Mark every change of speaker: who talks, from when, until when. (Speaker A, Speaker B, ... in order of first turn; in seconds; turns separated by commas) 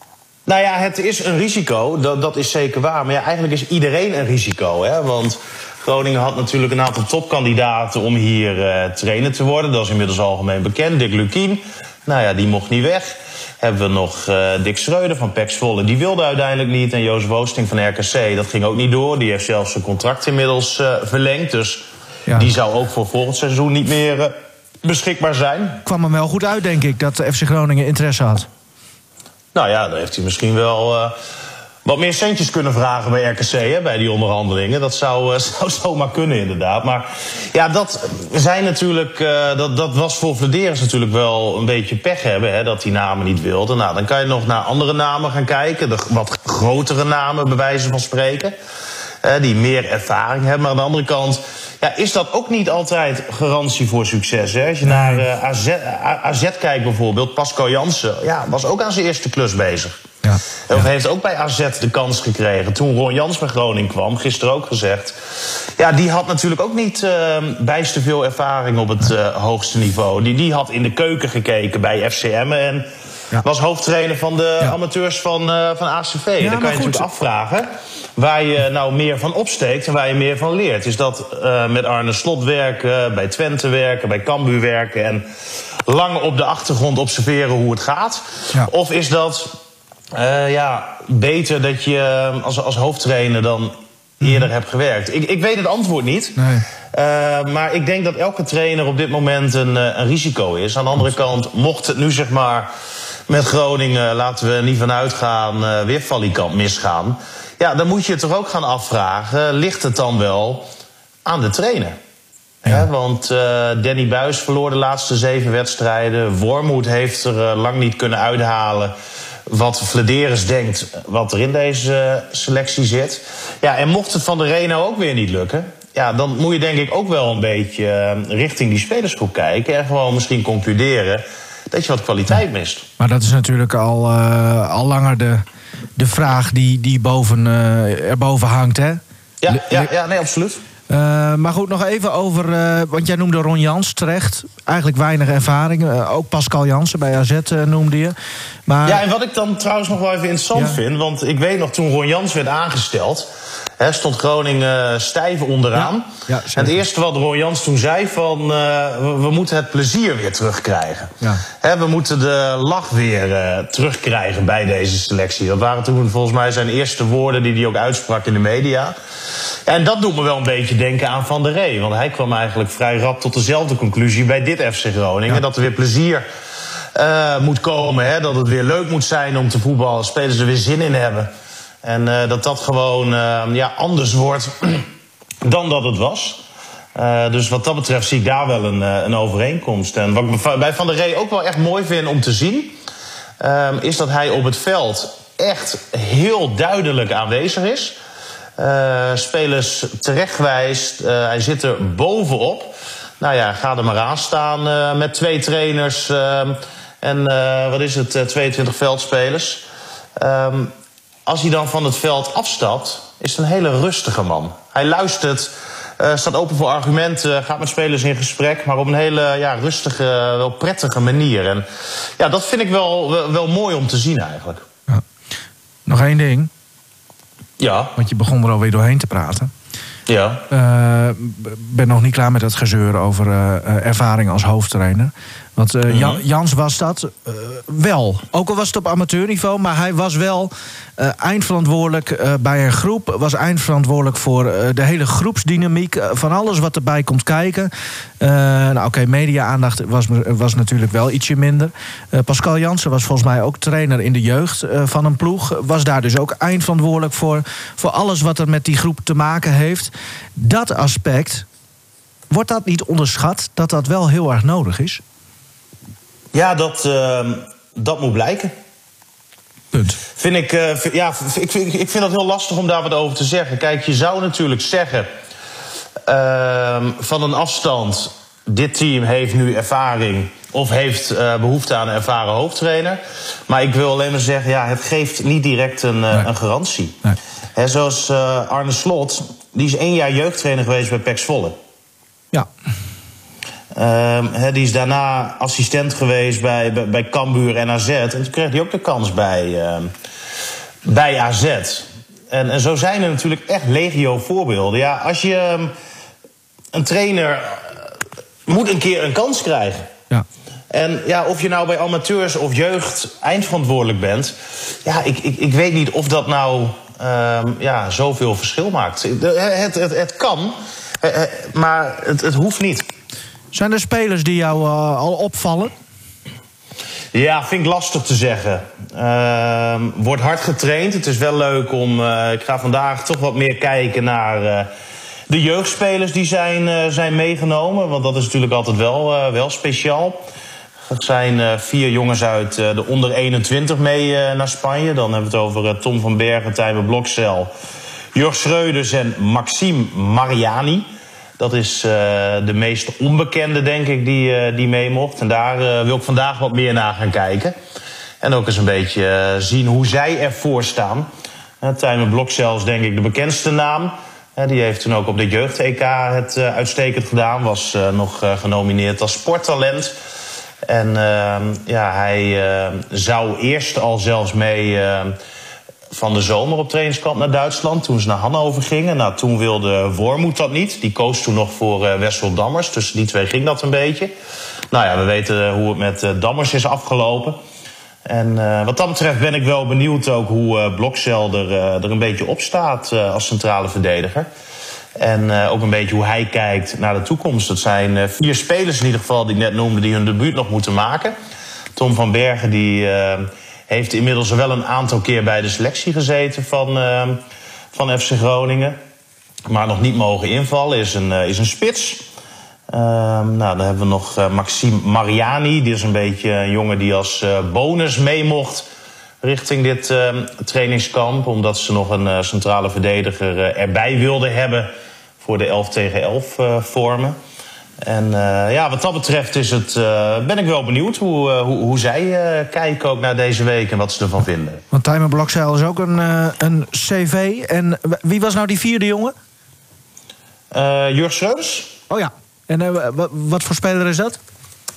Speaker A: 0.5-25.8, Speaker B: 25.8-28.5, Speaker A: 29.5-31.1, Speaker A: 31.8-48.5, Speaker A: 49.2-60.0, Speaker B: 54.9-55.2, Speaker A: 60.7-72.9, Speaker A: 73.4-85.3, Speaker B: 76.4-77.0, Speaker A: 85.9-89.6, Speaker A: 90.1-96.4, Speaker B: 96.3-96.7, Speaker A: 96.9-102.7, Speaker A: 103.3-110.7, Speaker A: 111.2-112.0, Speaker A: 112.6-118.9, Speaker A: 119.5-132.8, Speaker B: 133.0-135.4, Speaker B: 135.9-139.9, Speaker A: 139.4-140.6, Speaker B: 140.9-148.1, Speaker B: 148.7-149.0, Speaker A: 148.8-168.9, Speaker B: 155.7-156.7, Speaker A: 169.7-176.2, Speaker A: 176.9-181.3, Speaker A: 181.8-184.9, Speaker A: 185.4-186.4, Speaker A: 186.9-192.8, Speaker A: 193.4-198.0, Speaker A: 198.6-209.7, Speaker A: 210.2-210.7, Speaker A: 211.2-221.7, Speaker A: 222.2-224.6, Speaker B: 225.9-226.5, Speaker A: 227.6-227.9, Speaker B: 227.9-229.5, Speaker A: 230.1-230.4, Speaker B: 230.5-261.4, Speaker A: 235.9-236.2, Speaker B: 262.3-265.0, Speaker A: 266.3-268.5, Speaker B: 269.7-270.0, Speaker A: 270.1-275.1, Speaker A: 276.1-287.0, Speaker A: 287.5-291.6, Speaker A: 293.7-299.9, Speaker A: 300.8-305.7, Speaker A: 306.7-307.9, Speaker A: 308.4-309.9, Speaker A: 310.7-322.8, Speaker B: 323.5-325.7, Speaker A: 327.1-334.7, Speaker A: 335.3-340.2, Speaker A: 340.9-347.5, Speaker A: 348.1-350.9, Speaker A: 351.4-357.5, Speaker A: 358.2-361.1, Speaker A: 361.6-369.9, Speaker A: 370.6-375.1, Speaker A: 375.9-384.1, Speaker A: 384.7-387.4, Speaker A: 388.0-394.3, Speaker A: 395.0-401.1, Speaker A: 401.8-407.2, Speaker A: 407.7-408.8, Speaker A: 409.5-412.1, Speaker A: 412.7-418.7, Speaker A: 419.2-424.7, Speaker A: 425.2-427.2, Speaker A: 427.8-434.6, Speaker B: 434.7-439.1, Speaker A: 440.5-441.7, Speaker B: 441.9-444.2